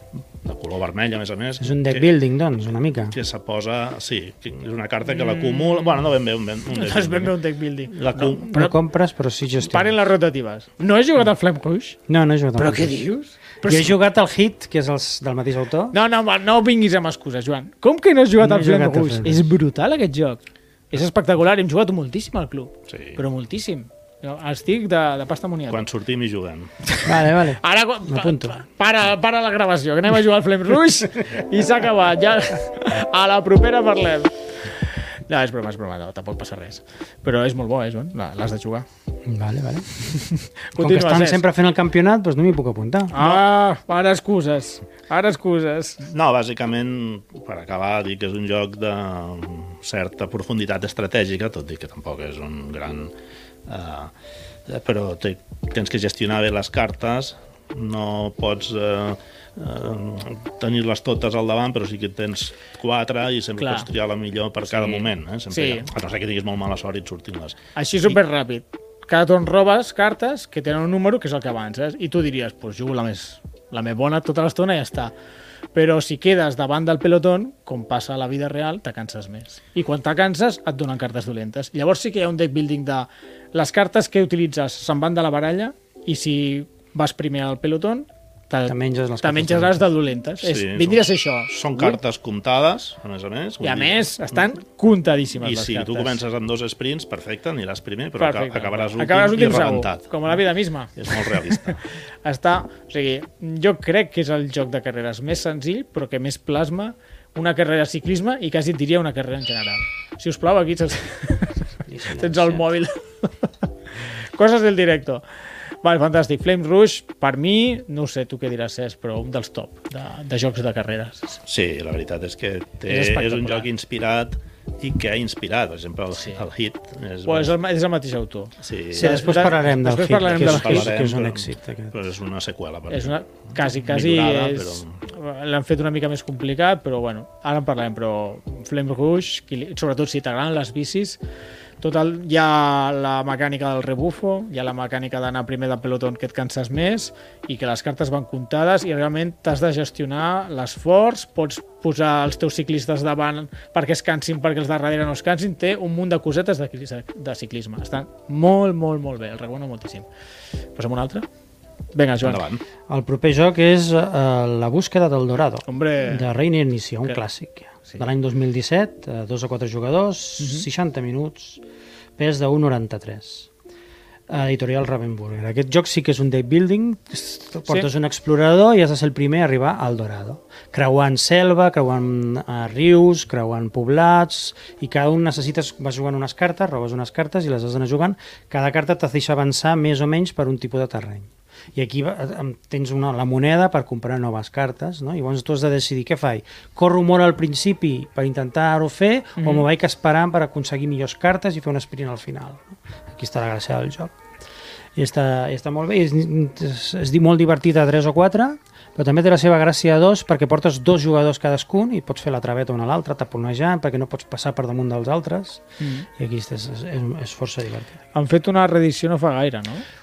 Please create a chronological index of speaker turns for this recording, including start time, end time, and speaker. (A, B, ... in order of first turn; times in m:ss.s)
0:00.4-0:02.1 A
0:01.6-0:03.2 B
0:03.1-0:07.3 A
0:05.1-0:06.0 C
0:06.7-0:08.7 C
0:07.9-0:08.6 A
0:08.5-0:09.9 B
0:09.6-0:12.0 C
0:12.1-0:13.0 B
0:12.6-0:14.0 C
0:13.6-0:16.0 B
0:15.9-0:25.8 C
0:18.4-0:19.5 B
0:22.9-0:23.2 A
0:25.7-0:26.7 A
0:26.8-0:38.9 C
0:27.0-0:28.6 B
0:39.3-0:40.1 B
0:40.2-0:41.4 C
0:40.8-0:43.2 B
0:43.1-0:46.0 C
0:46.0-0:53.1 A
0:53.7-0:54.1 A
0:54.7-1:08.2 A
1:03.6-1:03.9 C
1:04.7-1:05.9 C
1:07.8-1:15.1 C
1:15.7-1:32.0 C
1:28.7-1:29.9 B
1:30.4-1:34.4 A
1:33.6-1:36.2 C
1:35.4-1:40.4 A
1:38.2-1:53.5 C
1:41.0-1:41.8 A
1:51.9-1:52.6 B
1:54.1-1:55.2 C
1:55.8-2:01.4 C
2:01.5-2:07.5 A
2:02.9-2:03.7 C
2:06.2-2:06.4 C
2:07.3-2:10.9 C
2:08.6-2:09.6 A
2:08.9-2:12.0 B
2:10.1-2:15.0 A
2:12.9-2:21.2 C
2:21.8-2:40.1 C
2:40.8-2:41.3 C
2:41.9-2:42.4 C
2:42.2-2:42.6 A
2:42.9-2:51.6 B
2:45.7-2:46.3 C
2:50.4-2:50.7 C
2:52.2-2:53.5 B
2:54.3-3:24.1 B
3:19.4-3:19.7 C
3:25.0-3:38.0 B
3:35.8-3:36.1 C
3:38.2-3:39.8 C